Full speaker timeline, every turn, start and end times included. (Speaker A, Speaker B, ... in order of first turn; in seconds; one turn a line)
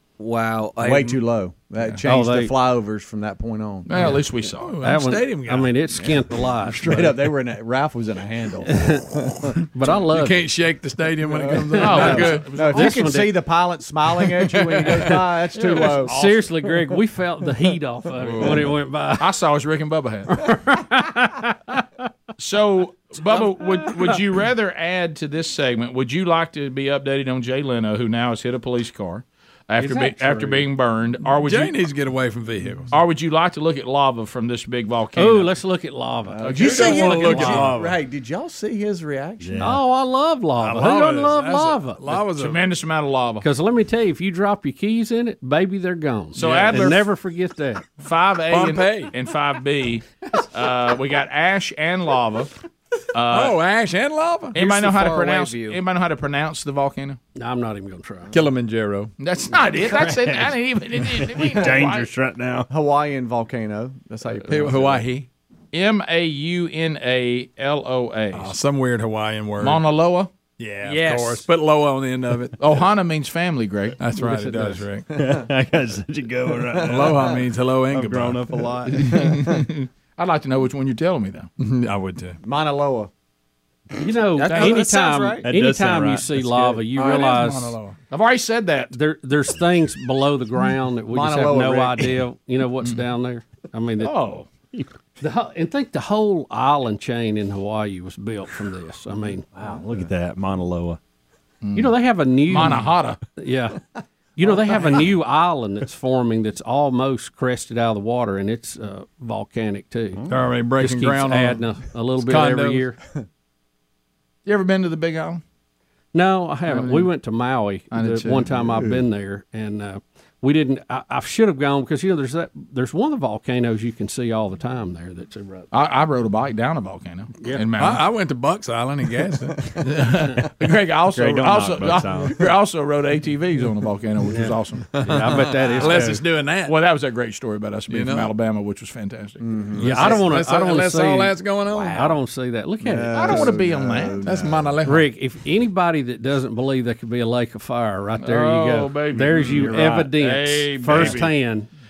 Speaker A: 0.2-1.2
Speaker B: 0.8-4.2
Speaker C: 2.0-2.5
Speaker D: 3.9-4.7
Speaker E: 4.6-5.7
Speaker C: 4.8-7.2
Speaker B: 6.0-9.5
Speaker C: 8.7-9.1
Speaker C: 9.7-10.4
Speaker E: 10.1-12.5
Speaker B: 11.2-16.2
Speaker D: 11.8-13.0
Speaker C: 12.7-13.4
Speaker E: 14.5-16.3
Speaker C: 15.6-19.3
Speaker D: 18.2-20.4
Speaker C: 20.3-21.8
Speaker D: 22.4-31.8
Speaker C: 23.2-24.2
Speaker C: 29.8-30.7
Speaker E: 31.4-32.9
Speaker D: 32.9-35.5
Speaker C: 35.1-37.7
Speaker B: 36.3-39.7
Speaker D: 36.4-37.3
Speaker E: 36.6-38.0
Speaker F: 39.4-39.8
Speaker C: 39.6-42.0
Speaker E: 40.6-42.6
Speaker D: 42.3-43.4
Speaker C: 43.4-47.8
Speaker D: 46.3-47.0
Speaker E: 46.4-47.0
Speaker D: 48.0-52.6
Speaker E: 48.5-49.1
Speaker D: 53.1-53.6
Speaker E: 53.3-54.6
Speaker D: 54.5-57.2
Speaker A: 54.5-55.8
Speaker C: 57.4-58.3
Speaker E: 58.3-59.1
Speaker D: 59.2-62.1
Speaker F: 60.1-60.4
Speaker F: 61.1-62.7
Speaker B: 62.7-65.1
Speaker E: 64.4-65.2
Speaker D: 65.7-68.6
Speaker E: 68.3-69.8
Speaker D: 69.6-70.3
Speaker E: 70.6-72.8
Speaker A: 70.8-71.4
Speaker D: 72.6-74.0
Speaker E: 74.0-75.1
Speaker B: 74.2-75.4
Speaker F: 75.1-79.2
Speaker B: 76.7-77.4
Speaker E: 76.8-78.7
Speaker B: 78.7-79.6
Speaker D: 78.9-81.5
Speaker E: 81.6-82.4
Speaker B: 82.4-83.1
Speaker C: 84.0-87.8
Speaker D: 84.5-84.9
Speaker A: 84.5-85.4
Speaker F: 84.6-86.9
Speaker B: 84.9-85.3
Speaker E: 86.9-88.0
Speaker D: 88.1-88.9
Speaker C: 88.9-94.1
Speaker B: 91.1-92.2
Speaker D: 94.0-94.5
Speaker C: 95.2-99.5
Speaker F: 99.5-101.0
Speaker D: 101.6-101.9
Speaker C: 101.7-103.8
Speaker D: 102.5-103.2
Speaker C: 104.4-110.2
Speaker E: 110.3-111.6
Speaker C: 110.8-113.0
Speaker E: 112.2-112.9
Speaker D: 114.4-115.4
Speaker C: 116.1-125.7
Speaker D: 116.7-117.1
Speaker D: 117.9-118.5
Speaker B: 118.6-119.0
Speaker D: 125.7-128.0
Speaker C: 127.4-127.6
Speaker E: 127.8-129.9
Speaker D: 129.8-134.9
Speaker F: 131.1-132.4
Speaker C: 134.3-136.2
Speaker E: 135.0-136.7
Speaker D: 136.6-139.4
Speaker E: 137.9-138.3
Speaker B: 139.4-140.3
Speaker E: 139.7-142.2
Speaker C: 139.8-143.5
Speaker B: 142.8-144.8
Speaker D: 143.1-144.2
Speaker E: 144.2-145.1
Speaker C: 144.8-151.7
Speaker D: 148.2-151.3
Speaker E: 149.4-149.9
Speaker F: 149.7-150.1
Speaker E: 150.8-151.3